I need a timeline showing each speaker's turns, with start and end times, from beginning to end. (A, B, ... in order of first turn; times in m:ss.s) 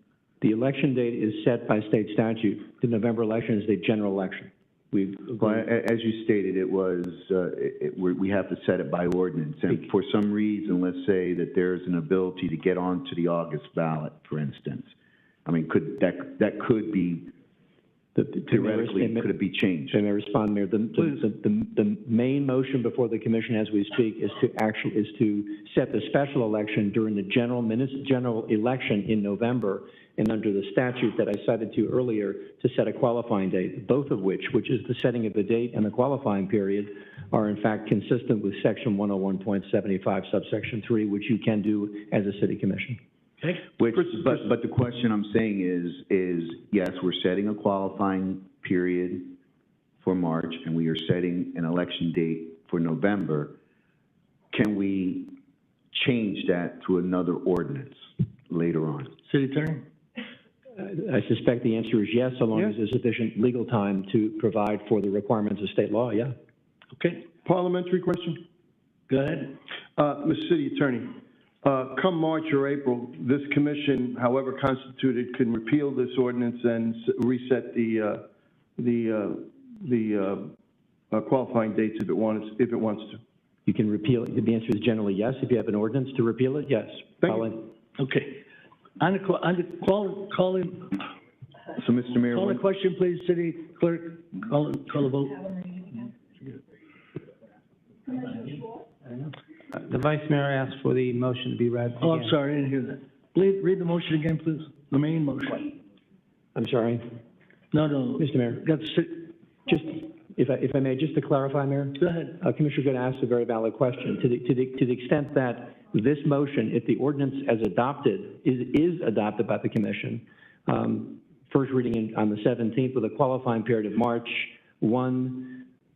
0:00.4-0:05.6 A
0:05.1-0:14.9 B
0:15.4-0:17.3 B
0:18.1-0:19.3 A
0:18.5-0:20.0 B
0:19.9-0:43.0 A
0:43.8-0:49.4 B
0:44.0-0:44.4 C
0:50.0-0:53.5 B
0:54.5-0:55.3 B
0:55.9-0:59.1 B
0:59.2-0:59.8 D
1:00.8-1:06.3 A
1:06.9-1:07.2 D
1:07.4-1:08.4 C
1:09.1-1:09.5 D
1:10.0-1:18.2 C
1:18.8-1:20.5 C
1:21.1-1:23.2 C
1:23.6-1:27.6 A
1:28.0-1:28.4 D
1:29.0-1:31.1 D
1:31.7-1:32.6 B
1:32.3-1:35.5 D
1:39.7-1:42.3 E
1:42.0-1:45.7 D
1:46.5-1:47.1 A
1:47.7-1:49.3 D
1:48.2-1:48.6 A
1:49.7-2:05.7 A
1:52.0-1:52.4 D